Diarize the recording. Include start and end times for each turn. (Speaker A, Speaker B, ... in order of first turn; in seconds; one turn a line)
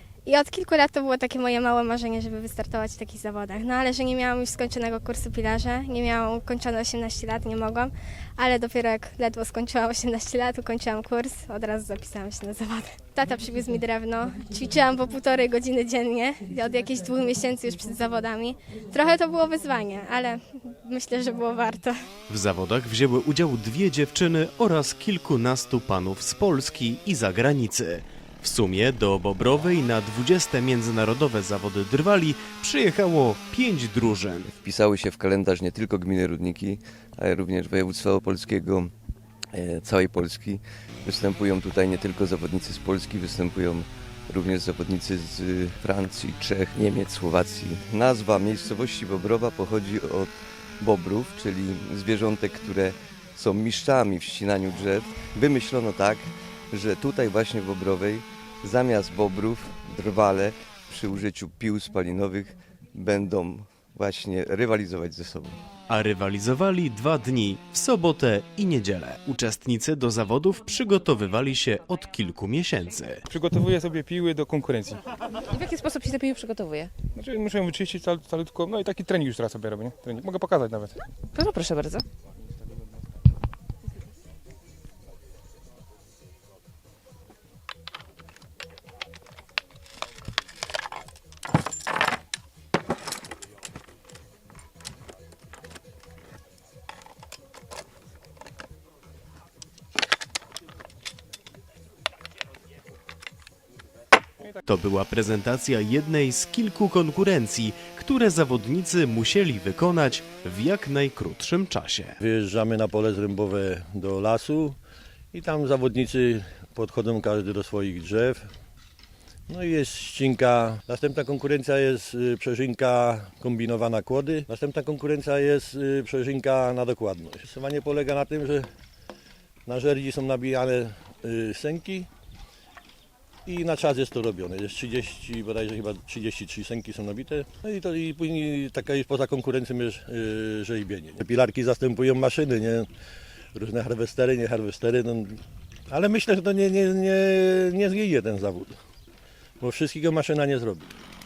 Speaker A: 0.2-21.9
Speaker B: 22.3-34.5
Speaker C: 34.6-38.9
Speaker C: 39.5-50.3
Speaker C: 50.8-65.6
Speaker B: 65.9-73.2
Speaker D: 73.3-75.0
Speaker E: 75.5-76.9
Speaker D: 77.1-80.9
Speaker E: 81.3-82.0
Speaker B: 104.6-112.1
Speaker F: 112.2-114.8
Speaker F: 115.3-118.5
Speaker F: 119.5-128.7
Speaker F: 129.7-132.1
Speaker F: 133.4-142.9
Speaker F: 143.5-148.8
Speaker F: 149.6-150.9